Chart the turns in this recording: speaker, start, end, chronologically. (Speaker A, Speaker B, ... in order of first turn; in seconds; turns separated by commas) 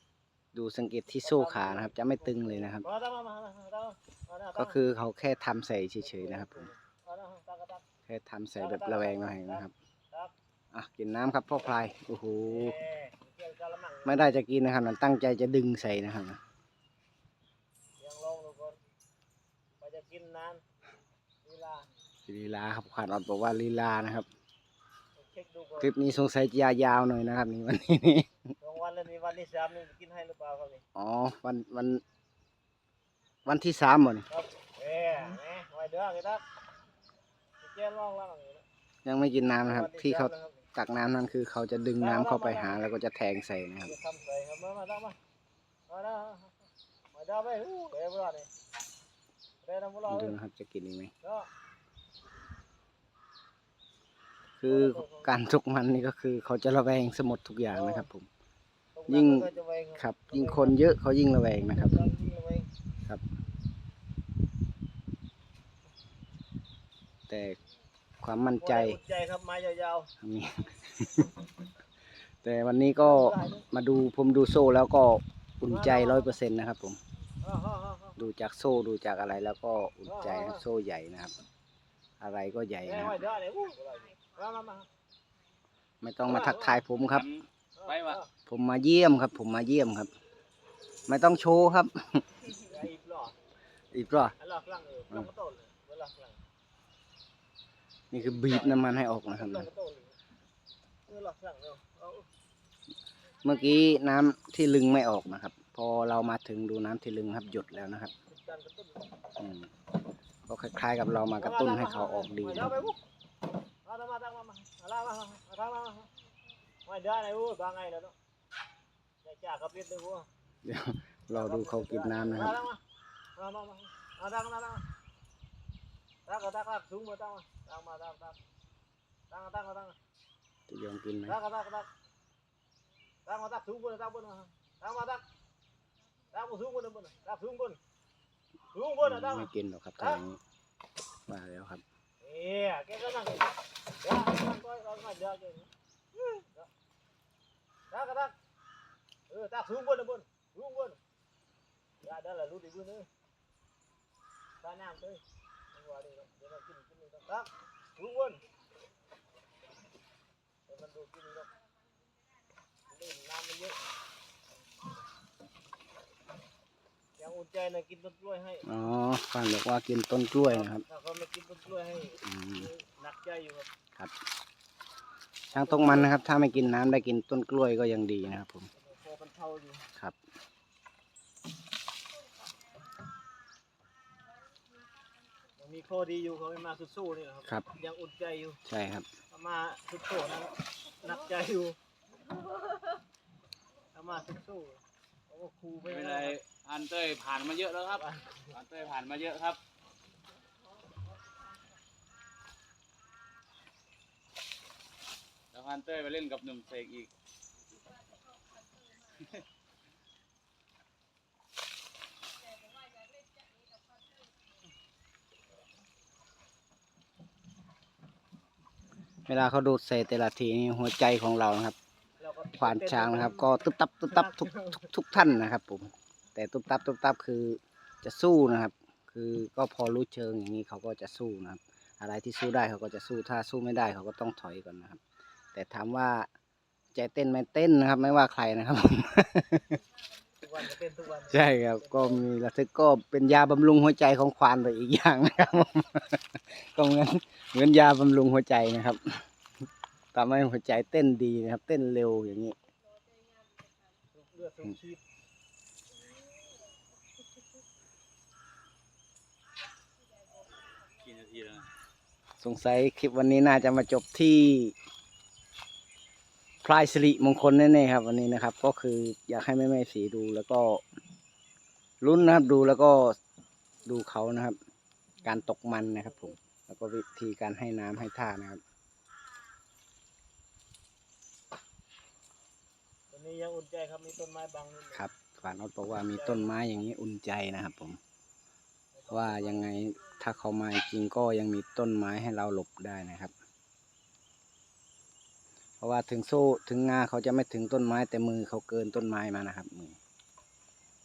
Speaker A: 0.5-2.9, Speaker B: 1.2-4.8, Speaker A: 4.6-6.7, Speaker B: 6.0-7.8, Speaker A: 8.1-9.7, Speaker B: 8.6-10.3, Speaker A: 10.7-12.7, Speaker B: 12.5-14.2, Speaker A: 14.1-16.4, Speaker B: 18.0-18.8, Speaker B: 19.8-20.6, Speaker B: 21.4-21.9, Speaker A: 22.3-24.3, Speaker B: 25.2-25.9, Speaker A: 25.8-28.3, Speaker B: 28.6-30.8, Speaker A: 30.9-32.0, Speaker A: 33.5-34.3, Speaker B: 34.3-36.4, Speaker B: 37.6-38.6, Speaker A: 39.0-43.9, Speaker B: 39.7-40.7, Speaker B: 42.0-42.8, Speaker B: 43.9-45.2, Speaker B: 45.9-46.5, Speaker B: 47.1-48.5, Speaker B: 49.6-50.4, Speaker A: 50.1-51.1, Speaker B: 51.2-51.5, Speaker A: 54.6-58.3, Speaker B: 54.7-55.3, Speaker B: 57.7-58.0, Speaker B: 59.0-60.8, Speaker A: 59.1-62.0, Speaker B: 61.8-62.7, Speaker A: 67.3-67.6, Speaker A: 68.2-69.0, Speaker B: 68.6-70.1, Speaker A: 70.2-71.3, Speaker A: 72.4-77.0, Speaker B: 73.0-73.7, Speaker B: 75.7-76.3, Speaker B: 77.4-78.2, Speaker A: 78.2-81.3, Speaker B: 80.1-80.6, Speaker A: 82.2-83.2, Speaker B: 82.8-84.9, Speaker A: 86.0-87.3, Speaker B: 86.2-86.8, Speaker C: 87.1-88.2, Speaker B: 87.8-88.3, Speaker A: 88.5-90.1, Speaker A: 91.1-92.2, Speaker B: 92.6-93.3, Speaker A: 93.9-94.3, Speaker B: 94.4-96.4, Speaker A: 98.1-99.7, Speaker B: 98.2-100.1, Speaker B: 101.1-102.3, Speaker A: 103.4-108.1, Speaker B: 108.3-109.0, Speaker A: 109.4-109.7, Speaker A: 110.5-112.9, Speaker B: 111.4-113.0, Speaker B: 113.8-116.1, Speaker B: 116.8-118.2, Speaker B: 119.2-120.3, Speaker A: 120.6-122.6, Speaker B: 121.3-122.8, Speaker B: 123.4-124.8, Speaker B: 126.3-128.4, Speaker B: 129.3-130.0, Speaker A: 130.7-131.4, Speaker B: 131.3-131.9, Speaker B: 133.3-135.2, Speaker B: 136.3-137.8, Speaker B: 138.7-140.2, Speaker A: 139.0-140.4, Speaker A: 141.3-141.8, Speaker B: 142.2-146.7, Speaker B: 147.9-148.3, Speaker B: 149.3-151.0, Speaker B: 152.0-153.1, Speaker B: 154.6-155.2, Speaker B: 155.7-158.4, Speaker B: 160.7-161.5, Speaker B: 162.9-163.8, Speaker B: 167.2-168.7, Speaker A: 168.7-170.8, Speaker B: 170.5-173.7, Speaker A: 172.2-172.7, Speaker A: 175.5-178.7, Speaker B: 175.6-176.2, Speaker B: 178.8-179.8, Speaker B: 185.6-188.6, Speaker A: 188.7-189.1, Speaker B: 189.3-191.8, Speaker B: 193.9-196.4, Speaker C: 195.9-199.6, Speaker B: 198.0-198.5, Speaker C: 205.5-207.1, Speaker A: 219.3-221.8, Speaker B: 222.2-223.5, Speaker A: 222.6-235.0, Speaker B: 224.1-224.7, Speaker A: 235.5-236.3, Speaker A: 236.9-239.8, Speaker B: 240.4-242.2, Speaker A: 241.2-249.2, Speaker A: 250.1-252.6, Speaker B: 254.1-255.0, Speaker C: 261.0-261.7, Speaker A: 262.4-264.8, Speaker A: 266.6-270.8, Speaker A: 272.0-273.2, Speaker A: 273.9-274.6, Speaker A: 275.2-278.6, Speaker B: 283.1-285.1, Speaker A: 284.9-288.0, Speaker B: 286.1-286.5, Speaker B: 289.0-289.7, Speaker A: 289.1-293.3, Speaker A: 295.8-300.0